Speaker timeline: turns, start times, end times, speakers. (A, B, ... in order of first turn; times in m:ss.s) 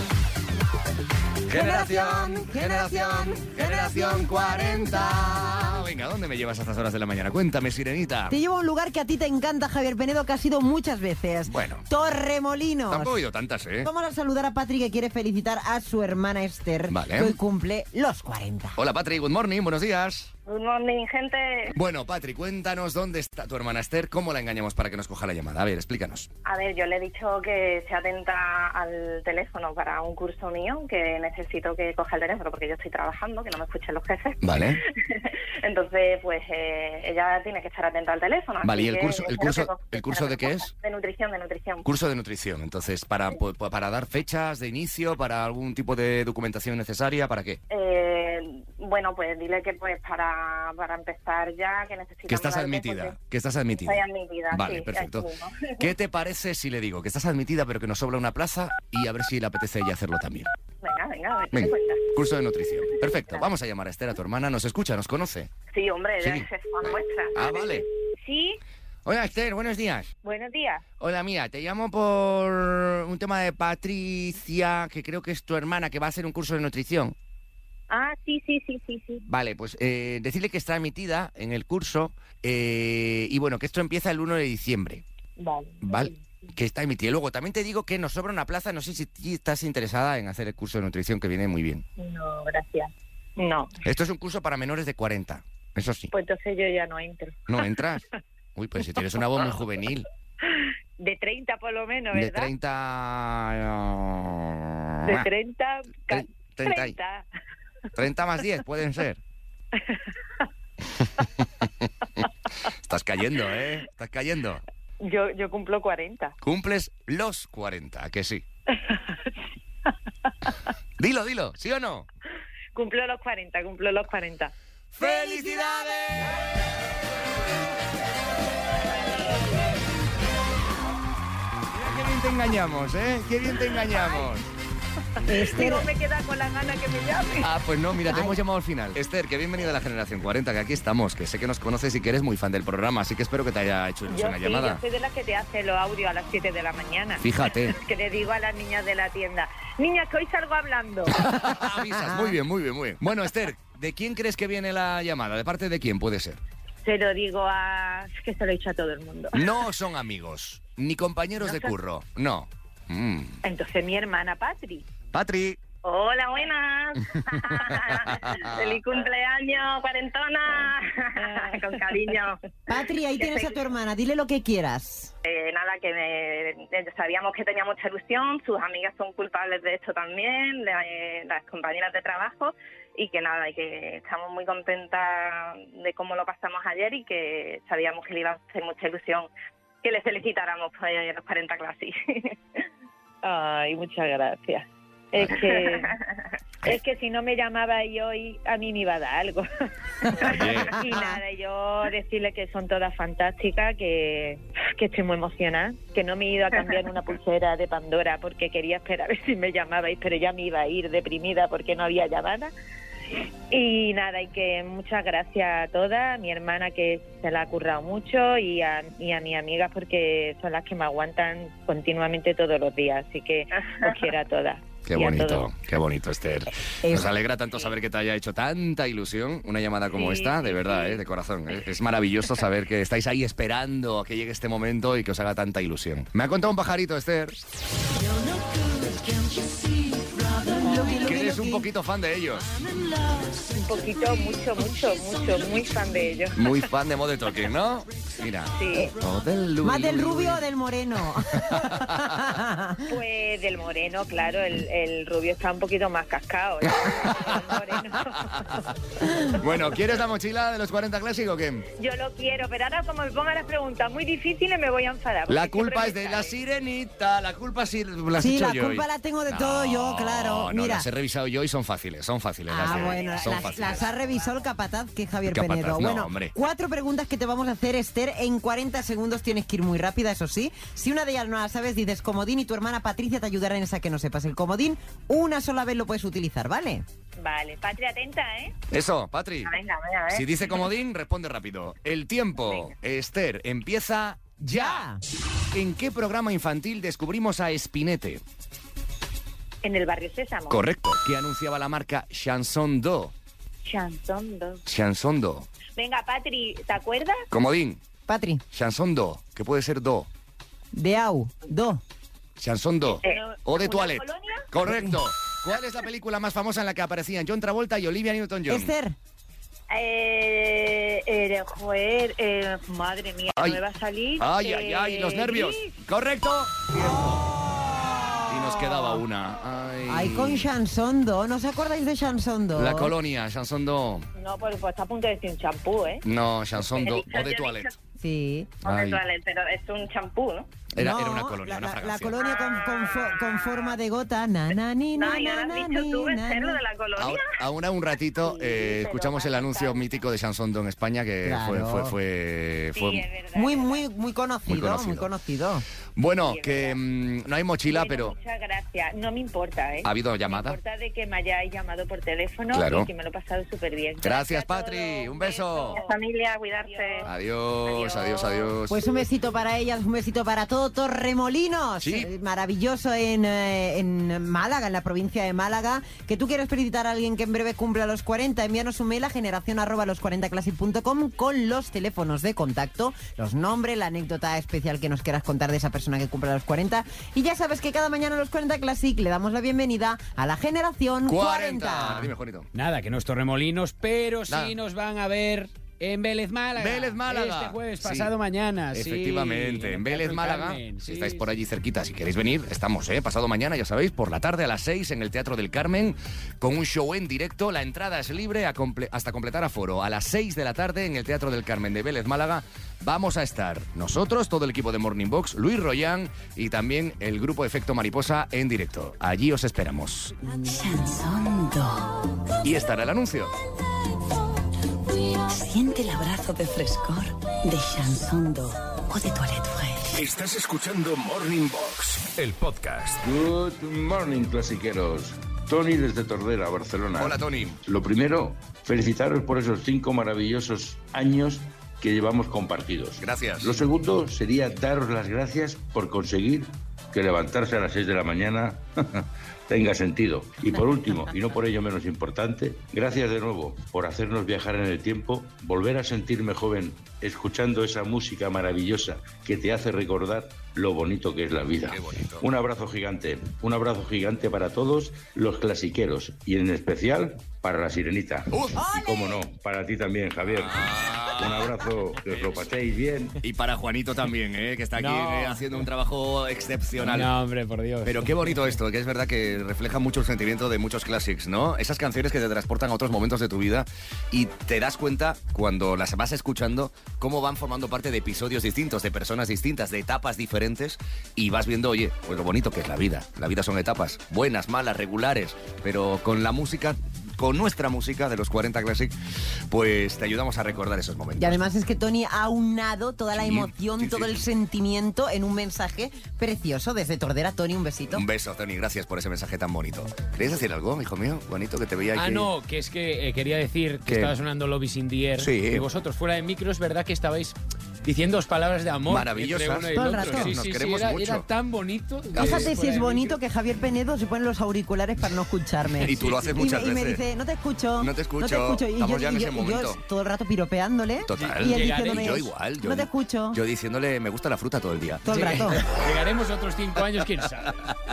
0:01.5-0:08.4 A
0:01.5-0:05.8 B
0:08.3-0:13.2 B
0:11.4-0:11.8 A
0:12.9-0:13.9 A
0:13.8-0:18.8 B
0:16.9-0:17.4 A
0:18.8-0:20.3 A
0:20.4-0:21.7 C
0:21.7-0:26.3 A
0:26.4-0:41.9 C
0:34.4-0:34.8 A
0:38.6-0:40.7 A
0:41.8-0:47.6 A
0:47.7-0:53.2 C
0:52.3-1:00.5 A
0:53.8-0:55.9 C
1:00.8-1:02.1 C
1:01.5-1:05.5 A
1:05.7-1:07.8 C
1:06.2-1:07.8 A
1:08.2-1:08.6 D
1:09.0-1:10.1 A
1:10.2-1:10.8 D
1:11.0-1:17.2 A
1:17.9-1:19.2 D
1:19.3-1:25.0 A
1:25.4-1:26.5 D
1:25.8-1:31.8 A
1:32.0-1:33.7 D
1:33.8-1:36.1 A
1:36.1-1:37.6 D
1:37.5-1:38.0 A
1:38.6-1:40.0 A
1:40.5-1:42.5 D
1:42.1-1:45.3 A
1:45.0-1:47.2 D
1:46.1-1:47.0 A
1:48.0-1:49.2 A
1:49.8-1:50.1 D
1:52.8-1:54.6 A
1:55.0-1:56.3 D
1:56.4-1:58.4 A
1:58.7-1:59.3 D
2:01.0-2:02.1 A
2:02.7-2:05.8 D
2:04.9-2:06.4 A
2:11.7-2:14.5 A
2:15.2-2:17.5 D
2:15.3-2:15.9 B
2:17.4-2:24.8 A
2:18.1-2:18.4 B
2:24.1-2:31.2 D
2:27.2-2:27.8 A
2:31.1-2:36.4 A
2:31.3-2:32.3 B
2:36.8-2:39.4 D
2:39.3-2:43.4 A
2:41.4-2:41.7 D
2:43.4-2:44.8 D
2:45.1-2:45.6 A
2:45.8-2:52.4 C
2:47.7-2:48.8 A
2:51.2-2:52.0 D
2:52.7-2:55.1 B
2:53.2-2:53.5 C
2:55.2-3:09.3 C
3:09.8-3:12.4 C
3:13.2-3:16.0 D
3:15.3-3:15.8 C
3:16.6-3:19.5 D
3:20.0-3:32.5 D
3:20.2-3:20.8 A
3:33.5-3:45.5 D
3:44.8-3:57.4 A
3:46.8-3:47.1 B
3:50.0-3:51.0 D
4:00.5-4:01.6 B
4:01.0-4:02.5 A
4:03.5-4:06.5 D
4:06.3-4:10.4 A
4:08.5-4:08.9 D
4:09.6-4:12.8 B
4:11.4-4:12.2 A
4:12.9-4:18.7 D
4:16.8-4:17.4 A
4:19.4-4:21.6 A
4:21.8-4:26.4 D
4:25.3-4:33.9 A
4:28.2-4:30.9 B
4:32.5-4:46.8 B
4:32.6-4:34.4 D
4:35.2-4:36.3 A
4:47.2-4:48.6 D
4:48.7-4:49.5 A
4:49.6-4:50.0 C
4:50.1-4:54.9 A
4:54.4-4:55.0 B
4:55.5-4:58.2 A
4:59.6-5:00.6 D
5:00.5-5:03.1 A
5:03.6-5:04.6 D
5:04.6-5:05.5 A
5:05.8-5:07.2 D
5:07.3-5:07.8 A
5:08.1-5:08.4 B
5:08.5-5:10.1 A
5:10.7-5:11.8 B
5:12.4-5:18.7 A
5:13.0-5:14.5 D
5:14.6-5:14.9 B
5:18.5-5:19.0 B
5:19.7-5:25.7 D
5:23.3-5:23.6 A
5:24.2-5:27.3 A
5:27.5-5:29.0 B
5:28.3-5:30.5 A
5:29.9-5:32.9 B
5:32.5-5:34.0 A
5:34.2-5:36.0 D
5:36.0-5:37.7 A
5:36.7-5:37.7 C
5:38.0-5:38.5 B
5:38.6-5:39.0 A
5:38.6-5:40.5 C
5:40.7-5:42.2 A
5:40.8-5:46.6 B
5:42.3-5:43.4 C
5:42.4-5:42.8 D
5:44.9-5:47.2 C
5:47.0-5:53.0 A
5:48.2-5:50.0 D
5:51.2-5:51.9 B
5:52.7-5:53.8 D
5:53.3-5:55.6 B
5:54.5-5:55.1 A
5:56.0-5:58.2 A
5:56.2-5:56.8 D
5:57.7-6:06.0 D
5:59.8-6:00.6 A
6:02.5-6:02.9 A
6:04.0-6:05.8 A
6:05.7-6:07.1 C
6:06.6-6:07.1 D
6:07.0-6:09.0 A
6:07.6-6:08.5 C
6:08.7-6:32.1 B
6:11.8-6:12.1 A
6:31.0-6:32.5 A
6:32.5-6:41.3 E
6:34.3-6:34.5 A
6:36.5-6:38.1 A
6:38.7-7:00.1 A
7:00.4-7:02.0 F
7:02.4-7:03.4 A
7:05.3-7:10.0 F
7:09.9-7:13.0 G
7:13.0-7:53.2 H
7:16.9-7:17.6 A
7:23.0-7:23.6 A
7:41.7-7:42.2 A
7:48.3-7:48.6 A
7:48.5-7:49.2 B
7:50.2-7:52.5 A
7:53.2-7:57.1 A
7:54.8-7:55.6 E
7:56.8-7:58.6 E
7:57.8-8:18.9 A
8:19.5-8:21.4 A
8:21.2-8:28.0 B
8:23.1-8:24.2 A
8:27.9-8:32.3 A
8:31.9-8:43.2 E
8:33.8-8:34.2 A
8:35.2-8:35.7 A
8:38.9-8:41.3 A
8:39.7-8:40.4 B
8:42.1-8:42.6 A
8:42.1-8:53.4 B
8:45.8-8:47.0 A
8:47.8-8:49.8 A
8:51.0-8:55.6 A
8:51.2-8:52.2 E
8:55.1-8:55.7 B
8:55.1-8:57.6 E